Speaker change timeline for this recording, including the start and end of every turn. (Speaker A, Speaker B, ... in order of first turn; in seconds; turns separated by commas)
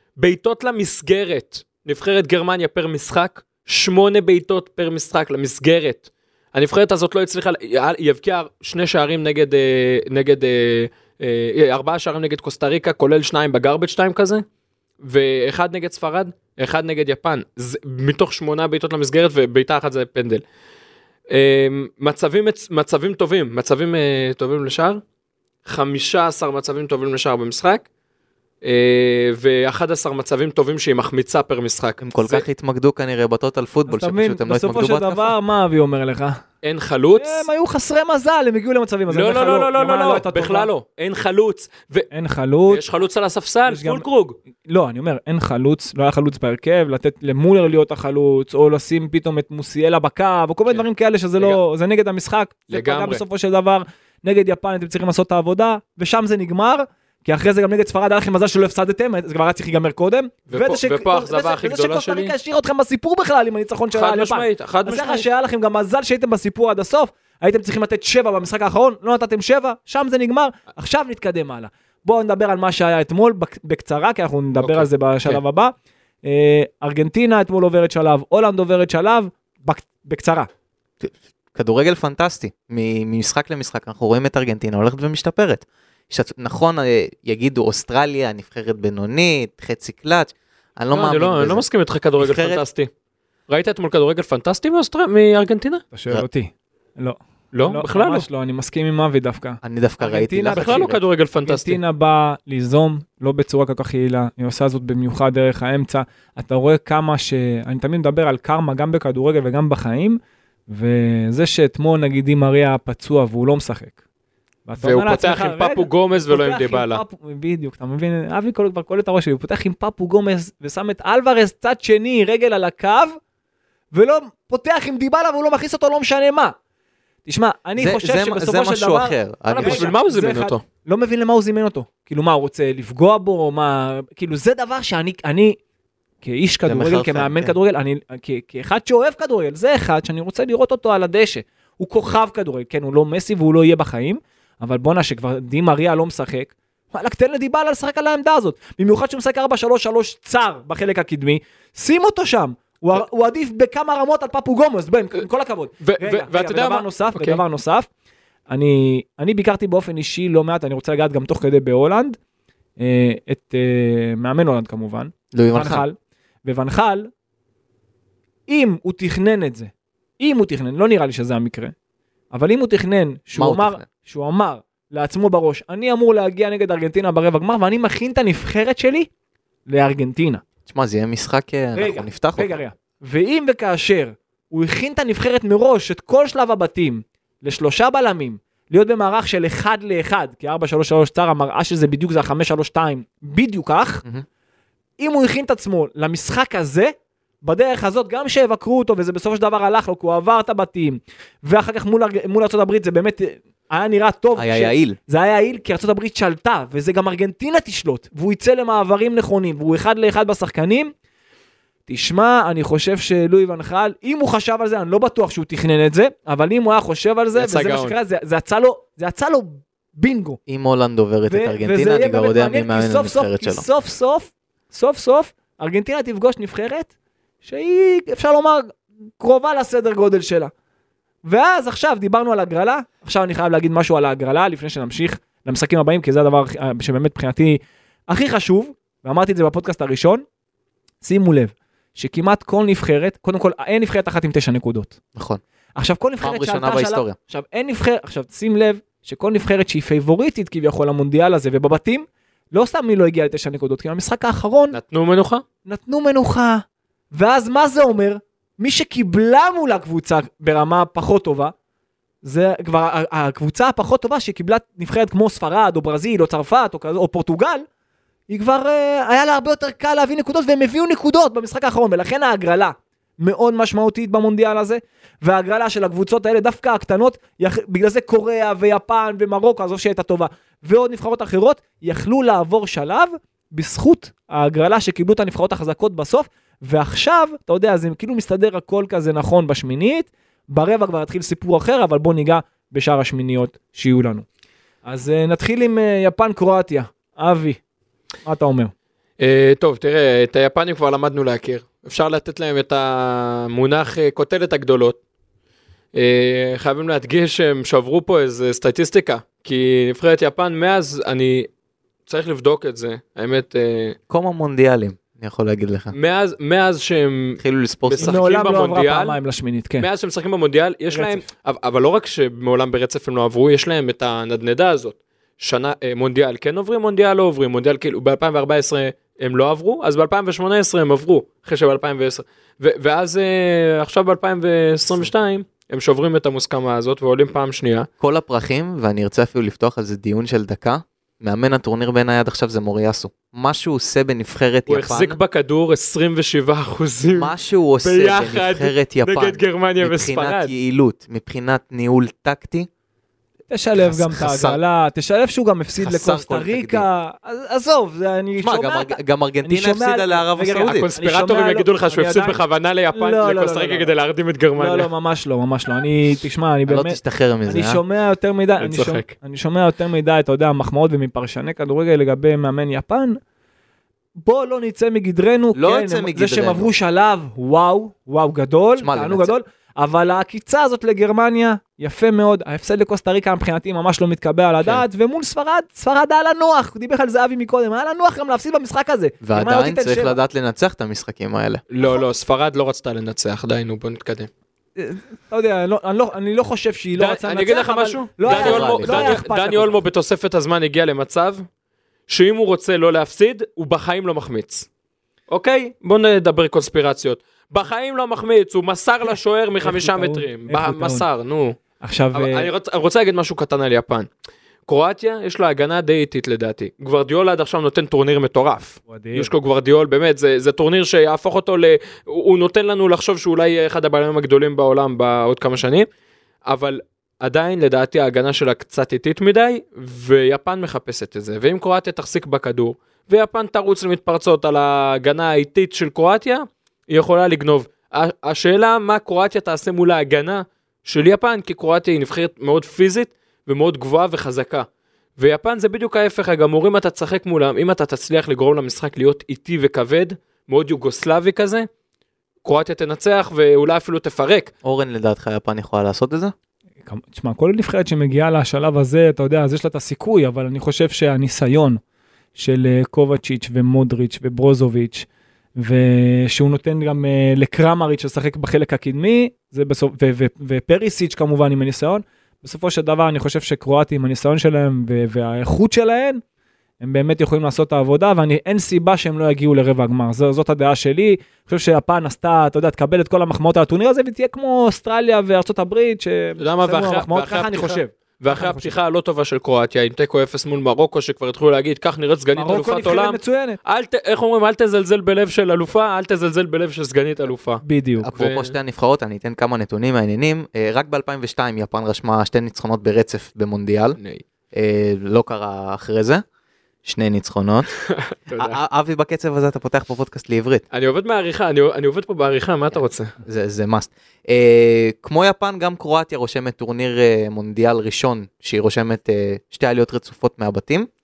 Speaker A: 0.2-14.4, Speaker A: 15.0-20.4, Speaker A: 21.3-25.0, Speaker A: 25.6-27.8, Speaker A: 28.6-32.4, Speaker B: 32.0-35.4, Speaker C: 33.9-36.4, Speaker A: 36.6-37.5, Speaker C: 37.2-40.7, Speaker A: 39.1-42.1, Speaker C: 42.1-42.8, Speaker A: 42.7-44.4, Speaker C: 43.7-44.0, Speaker C: 44.6-80.5, Speaker A: 52.7-53.2, Speaker A: 60.5-62.3, Speaker A: 63.9-65.2, Speaker A: 74.6-75.4, Speaker B: 81.0-91.6, Speaker A: 90.9-92.9, Speaker B: 92.2-92.6, Speaker A: 93.5-95.8, Speaker C: 95.9-100.9, Speaker A: 97.5-98.2, Speaker B: 99.6-101.0, Speaker A: 100.5-101.8, Speaker C: 101.4-114.0, Speaker C: 114.7-123.2, Speaker A: 114.8-117.0, Speaker C: 123.9-126.5, Speaker C: 127.2-135.6, Speaker B: 127.8-129.9, Speaker A: 129.6-130.6, Speaker C: 136.2-157.9, Speaker B: 136.7-137.5, Speaker A: 155.8-157.4, Speaker C: 158.5-162.2, Speaker C: 162.8-167.1, Speaker B: 165.3-165.8, Speaker C: 168.5-171.7, Speaker C: 172.3-179.1, Speaker B: 173.3-173.9, Speaker C: 179.7-180.4, Speaker B: 180.7-182.5, Speaker C: 181.7-194.0, Speaker C: 195.0-210.9, Speaker B: 204.3-205.0, Speaker C: 211.9-220.4, Speaker A: 217.3-217.9, Speaker B: 220.5-223.7, Speaker C: 221.3-226.9, Speaker C: 227.4-230.5, Speaker C: 231.2-240.2, Speaker C: 241.0-245.0, Speaker B: 245.1-245.4, Speaker C: 245.8-254.8, Speaker B: 246.2-247.2, Speaker A: 254.7-255.4, Speaker C: 255.7-261.5, Speaker C: 262.2-267.6, Speaker C: 268.3-294.2, Speaker C: 294.8-297.6, Speaker C: 298.2-298.7, Speaker A: 299.2-305.0, Speaker A: 305.9-311.5, Speaker A: 312.1-314.0, Speaker B: 314.1-315.9, Speaker A: 315.9-319.2, Speaker B: 317.4-318.2, Speaker C: 318.0-319.9, Speaker A: 319.8-337.9, Speaker C: 320.9-321.2, Speaker B: 338.0-345.2, Speaker A: 344.7-350.5, Speaker B: 347.1-352.7, Speaker C: 353.5-362.4, Speaker B: 353.8-354.6, Speaker B: 355.8-356.9, Speaker B: 358.4-360.9, Speaker A: 360.6-364.9, Speaker C: 362.9-363.9, Speaker C: 364.6-373.2, Speaker B: 366.7-367.8, Speaker A: 368.6-369.1, Speaker C: 374.2-390.2, Speaker B: 375.5-376.7, Speaker B: 378.8-379.3, Speaker B: 389.2-391.6, Speaker A: 391.7-394.3, Speaker C: 394.8-399.8, Speaker A: 397.0-401.4, Speaker B: 398.2-399.2, Speaker A: 402.1-404.7, Speaker A: 405.3-411.6, Speaker C: 409.6-411.1, Speaker C: 411.8-412.5, Speaker A: 412.1-414.1, Speaker A: 414.7-425.9, Speaker C: 418.9-419.3, Speaker A: 426.5-451.7, Speaker A: 452.4-454.5, Speaker B: 454.6-456.3, Speaker C: 456.8-461.8, Speaker C: 462.3-465.1, Speaker C: 465.6-476.2, Speaker C: 476.8-488.7, Speaker A: 486.4-497.6, Speaker C: 492.3-493.6, Speaker C: 497.6-498.1, Speaker B: 498.0-504.0, Speaker A: 498.1-498.5, Speaker A: 504.0-504.2, Speaker B: 504.5-506.2, Speaker B: 506.8-507.7, Speaker A: 507.8-508.6, Speaker B: 508.4-510.6, Speaker A: 510.7-513.1, Speaker B: 512.7-520.9